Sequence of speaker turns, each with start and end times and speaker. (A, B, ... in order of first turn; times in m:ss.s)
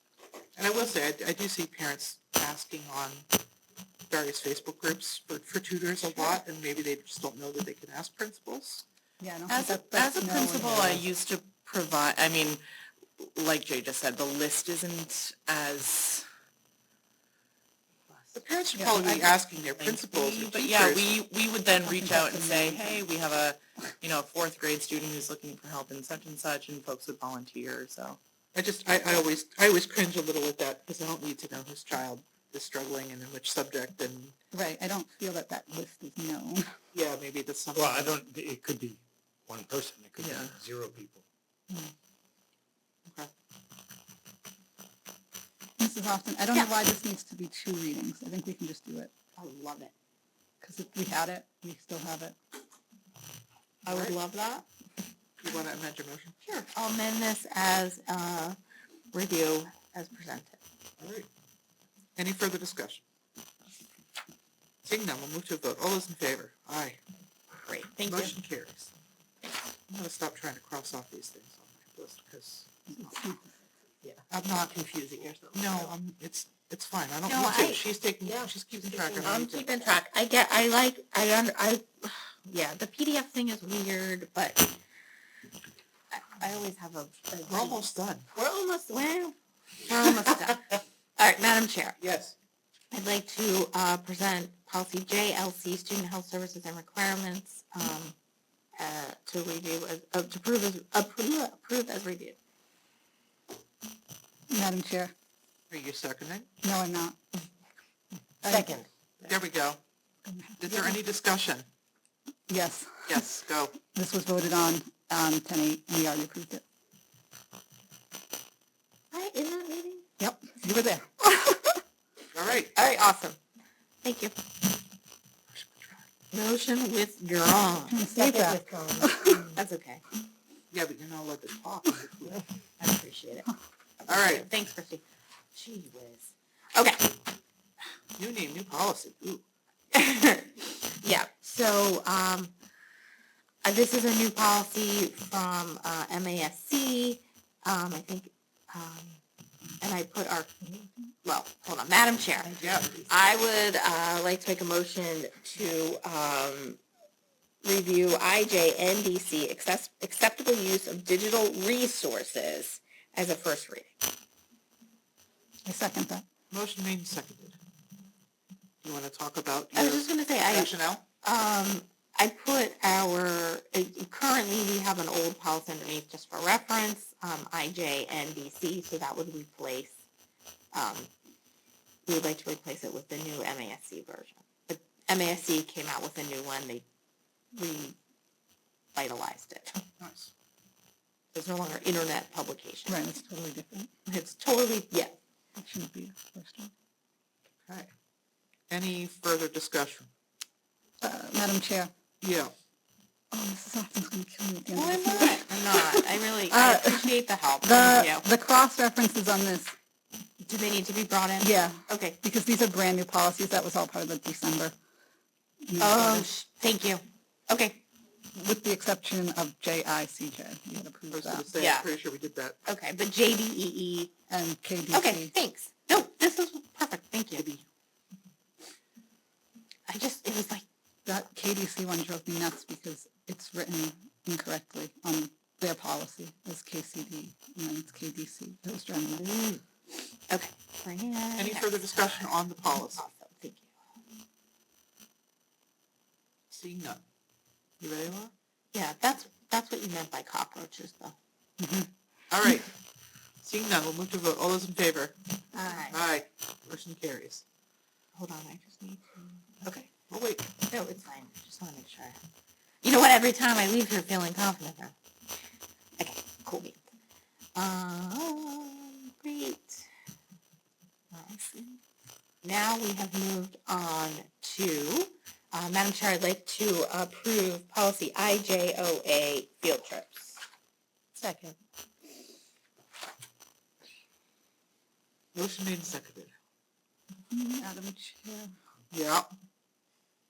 0:00.6-0:03.3 A
0:04.1-0:08.8 A
0:09.2-0:11.1 B
0:09.5-0:12.6 C
0:13.2-0:16.3 C
0:18.3-0:21.2 A
0:18.8-0:19.3 B
0:19.8-0:28.2 C
0:21.9-0:23.0 B
0:28.5-0:34.4 A
0:34.5-0:36.7 B
0:36.9-0:38.2 A
0:37.7-0:41.2 D
0:40.2-0:40.6 C
0:45.8-0:49.1 B
0:49.4-0:49.9 E
0:50.6-0:52.4 B
0:53.8-0:54.2 A
0:53.8-0:54.7 E
0:55.4-0:56.4 A
0:56.4-0:58.6 E
0:59.1-1:00.6 E
1:01.0-1:01.3 A
1:02.2-1:03.0 A
1:04.8-1:07.0 A
1:07.5-1:08.4 E
1:08.1-1:08.9 A
1:09.9-1:13.1 A
1:12.9-1:13.7 B
1:14.0-1:15.9 E
1:14.3-1:19.7 A
1:17.2-1:18.5 E
1:19.2-1:24.7 E
1:26.1-1:32.0 E
1:27.5-1:28.3 A
1:32.0-1:32.4 A
1:32.9-1:38.2 E
1:38.8-1:42.4 E
1:44.5-1:45.1 B
1:45.7-1:46.5 A
1:46.6-1:47.2 B
1:48.4-1:48.8 B
1:48.5-1:48.8 E
1:49.2-1:49.8 A
1:50.2-1:51.0 B
1:50.6-1:51.7 A
1:52.5-1:56.6 B
1:53.1-1:53.8 A
1:59.1-2:00.1 E
2:00.2-2:01.8 B
2:02.3-2:02.7 A
2:02.7-2:03.4 E
2:04.0-2:04.4 E
2:05.5-2:06.0 A
2:06.3-2:10.0 E
2:07.9-2:09.6 B
2:10.7-2:12.4 A
2:12.8-2:13.5 E
2:14.0-2:15.0 E
2:14.1-2:14.5 A
2:15.5-2:17.1 E
2:18.2-2:19.4 A
2:19.9-2:22.6 E
2:23.6-2:29.2 E
2:29.8-2:36.8 E
2:32.4-2:33.1 A
2:37.6-2:44.0 E
2:45.7-2:46.2 B
2:46.5-2:47.6 A
2:48.8-2:51.0 A
2:49.7-3:00.0 E
3:00.7-3:01.1 E
3:02.1-3:06.8 E
3:07.5-3:08.0 E
3:09.0-3:09.8 E
3:10.0-3:10.3 A
3:11.3-3:13.1 E
3:12.9-3:13.9 B
3:14.1-3:15.2 E
3:15.6-3:16.7 B
3:17.7-3:17.9 A
3:18.7-3:20.1 A
3:21.0-3:21.9 B
3:22.2-3:22.5 A
3:23.3-3:25.9 B
3:24.7-3:28.3 E
3:26.5-3:29.7 B
3:30.4-3:32.2 E
3:31.4-3:34.8 B
3:35.6-3:36.3 B
3:35.8-3:37.8 E
3:38.4-3:41.5 B
3:41.1-3:42.6 A
3:41.6-3:41.9 E
3:42.7-3:44.1 E
3:44.3-3:45.3 B
3:44.9-3:47.4 E
3:47.4-3:47.6 A
3:49.9-3:50.6 E
3:51.1-3:59.3 B
3:59.2-3:59.6 E
4:00.3-4:02.3 E
4:01.4-4:03.0 A
4:03.0-4:03.7 E
4:06.5-4:07.0 A
4:07.8-4:08.3 A
4:08.7-4:11.2 E
4:11.6-4:11.9 B
4:12.3-4:12.7 A
4:13.4-4:15.1 A
4:15.6-4:16.0 E
4:15.9-4:17.4 A
4:18.1-4:19.9 E
4:19.9-4:20.5 A
4:20.7-4:22.2 E
4:22.8-4:25.0 E
4:26.0-4:26.8 E
4:27.6-4:29.9 E
4:31.1-4:31.8 E
4:32.4-4:40.4 E
4:41.2-4:41.6 E
4:45.3-4:46.3 A
4:47.3-4:48.5 B
4:48.9-4:49.3 A